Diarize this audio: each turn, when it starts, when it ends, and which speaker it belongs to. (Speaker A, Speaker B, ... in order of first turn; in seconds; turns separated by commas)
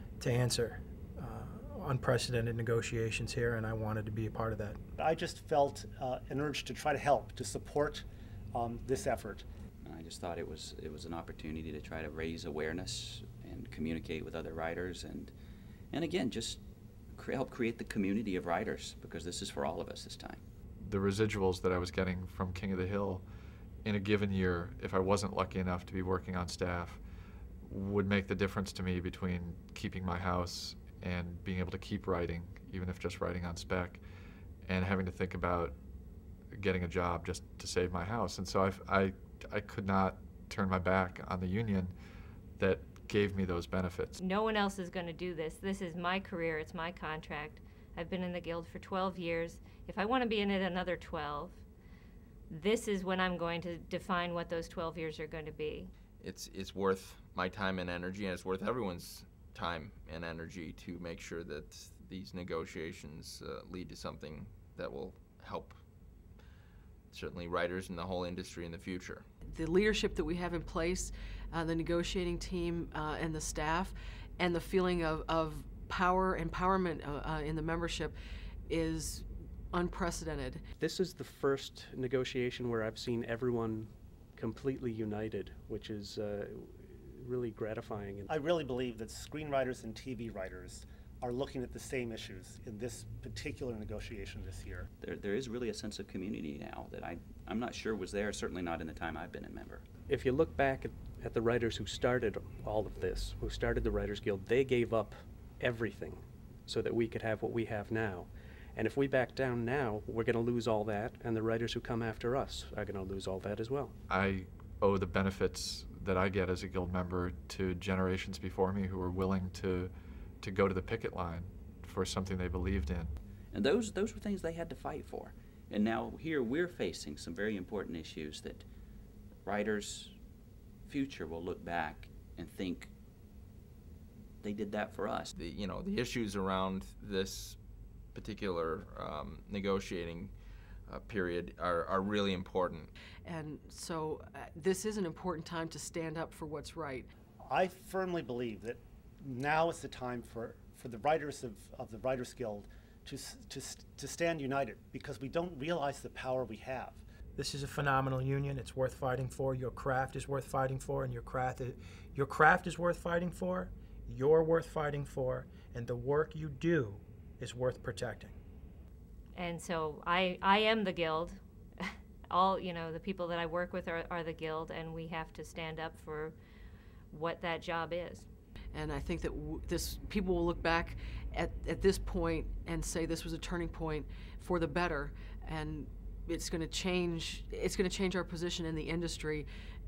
Speaker A: 0.2-4.8, Speaker B: 5.0-9.4, Speaker C: 9.8-15.3, Speaker C: 15.9-16.6, Speaker C: 17.1-20.4, Speaker D: 20.8-23.2, Speaker D: 23.8-27.0, Speaker D: 27.6-34.0, Speaker D: 34.6-35.8, Speaker D: 36.5-41.9, Speaker D: 42.6-44.2, Speaker E: 44.2-51.6, Speaker E: 52.5-55.9, Speaker F: 56.2-65.8, Speaker F: 67.1-69.2, Speaker G: 69.4-78.1, Speaker G: 78.7-80.6, Speaker H: 80.8-88.2, Speaker B: 88.3-94.9, Speaker C: 95.0-99.8, Speaker H: 100.1-113.9, Speaker D: 114.1-123.1, Speaker C: 123.5-128.7, Speaker C: 129.4-130.2, Speaker C: 130.8-132.9, Speaker C: 134.4-135.3, Speaker F: 135.3-137.6, Speaker F: 138.1-142.9, Speaker G: 143.2-147.1, Speaker B: 147.4-157.0, Speaker A: 157.3-168.4, Speaker E: 169.3-176.3, Speaker E: 177.1-178.3, Speaker G: 178.7-189.5